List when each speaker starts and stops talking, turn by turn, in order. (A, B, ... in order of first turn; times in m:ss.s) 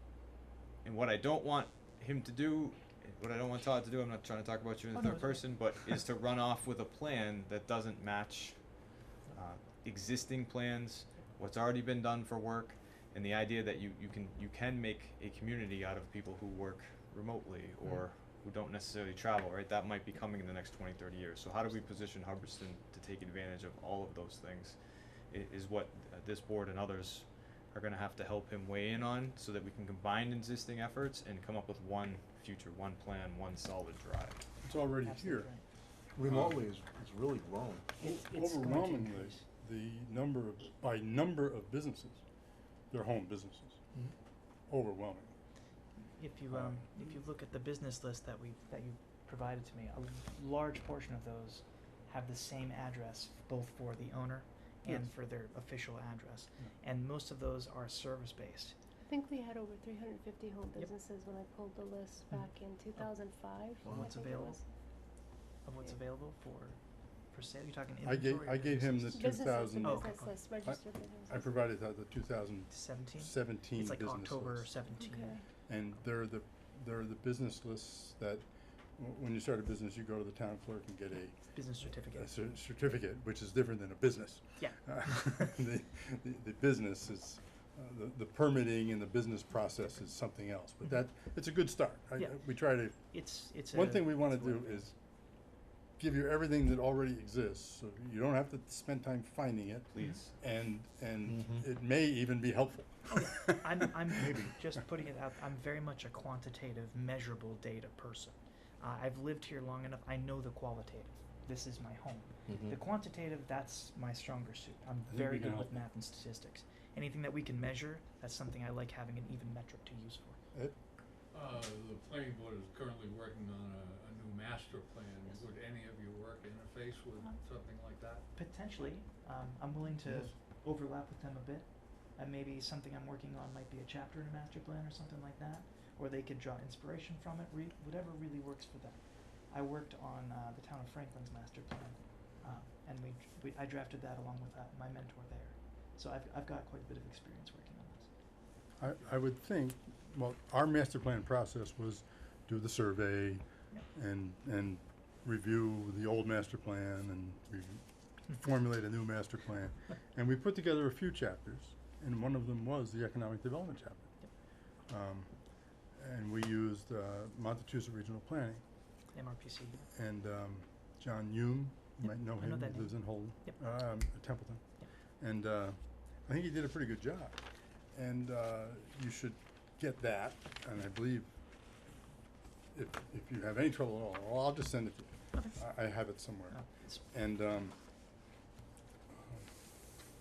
0:00.8-0:08.7 A
0:05.0-0:05.5 B
0:09.3-0:24.8 A
0:25.3-0:34.5 A
0:34.6-0:35.5 C
0:35.0-0:35.7 B
0:36.2-0:38.0 D
0:36.2-0:36.5 E
0:38.0-0:39.4 B
0:38.0-0:42.2 C
0:42.9-0:44.0 C
0:44.7-0:45.3 C
0:46.2-0:58.8 B
0:46.5-0:46.9 C
0:59.0-1:04.6 F
1:02.3-1:03.1 B
1:03.8-1:04.6 B
1:03.8-1:04.1 D
1:05.6-1:06.8 B
1:07.3-1:09.1 B
1:08.0-1:14.7 C
1:09.1-1:11.6 F
1:09.8-1:10.4 B
1:12.7-1:15.4 B
1:14.9-1:15.4 F
1:15.7-1:18.4 C
1:19.0-1:34.9 C
1:21.5-1:22.4 B
1:24.6-1:24.8 B
1:32.2-1:34.9 B
1:36.0-1:44.5 C
1:39.9-1:40.3 A
1:41.3-1:41.6 D
1:43.1-2:00.4 B
1:52.5-1:52.8 D
1:55.1-1:55.7 C
2:01.3-2:08.3 E
2:08.3-2:28.1 B
2:10.0-2:10.3 E
2:28.8-2:44.1 C
2:44.9-2:45.3 C
2:46.0-2:48.6 C
2:49.1-2:49.9 B
2:49.9-2:54.6 C
2:52.0-2:53.6 B
2:55.2-2:57.4 C
2:57.9-3:01.3 C
3:02.7-3:07.8 C
3:05.3-3:05.6 B
3:06.5-3:07.0 B
3:09.1-3:09.5 C